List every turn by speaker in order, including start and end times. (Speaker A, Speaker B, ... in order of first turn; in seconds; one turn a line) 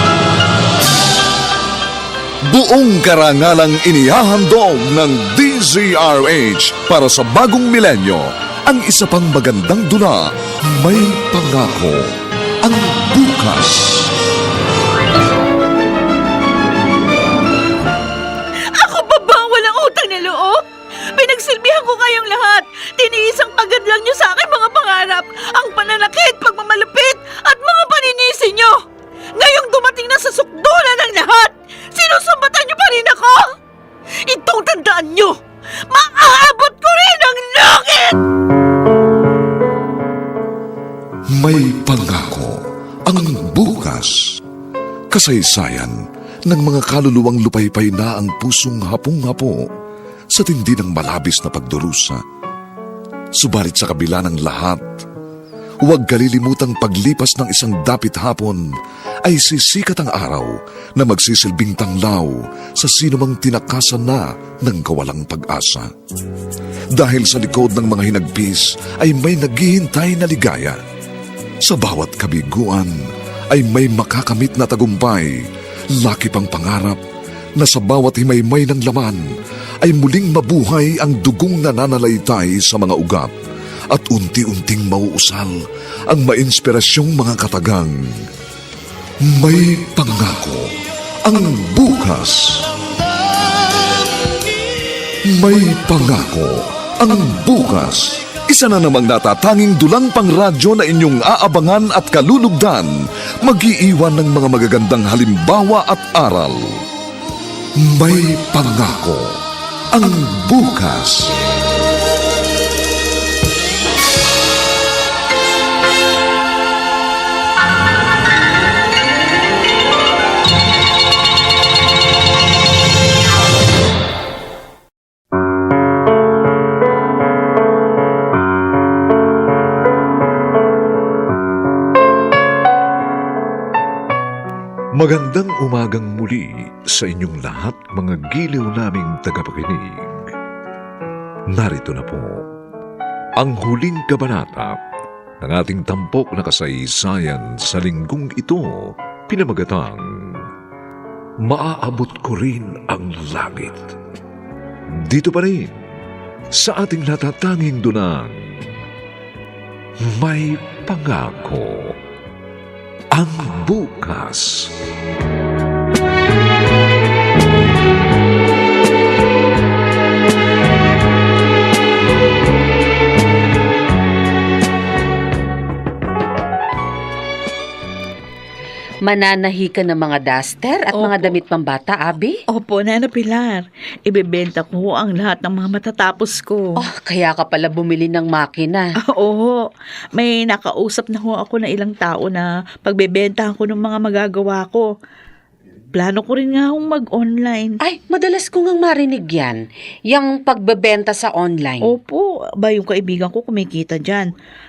Speaker A: 2.5-12.0
Speaker A: 12.6-14.1
Speaker B: 18.8-20.6
Speaker B: 21.1-28.8
Speaker B: 29.4-33.5
Speaker B: 34.2-35.4
Speaker B: 35.9-38.2
Speaker A: 41.4-44.3
Speaker A: 45.1-46.0
Speaker A: 46.5-49.6
Speaker A: 50.3-52.2
Speaker A: 53.4-54.8
Speaker A: 55.9-58.6
Speaker A: 59.2-65.9
Speaker A: 67.0-70.8
Speaker A: 71.7-72.9
Speaker A: 73.5-75.3
Speaker A: 76.0-77.0
Speaker A: 77.6-79.2
Speaker A: 79.8-83.3
Speaker A: 83.9-87.9
Speaker A: 89.3-90.7
Speaker A: 91.2-92.7
Speaker A: 95.3-106.7
Speaker A: 107.9-109.3
Speaker A: 109.9-111.3
Speaker A: 135.0-140.1
Speaker A: 141.5-142.4
Speaker A: 143.4-144.8
Speaker A: 145.4-150.0
Speaker A: 151.4-153.9
Speaker A: 155.1-155.7
Speaker A: 156.6-158.3
Speaker A: 160.1-162.0
Speaker A: 163.1-164.7
Speaker C: 179.1-182.4
Speaker B: 180.9-181.3
Speaker B: 182.5-186.8
Speaker C: 186.8-188.9
Speaker B: 189.1-189.6
Speaker B: 190.2-194.9
Speaker B: 195.9-197.8
Speaker C: 197.9-201.9
Speaker B: 201.8-204.3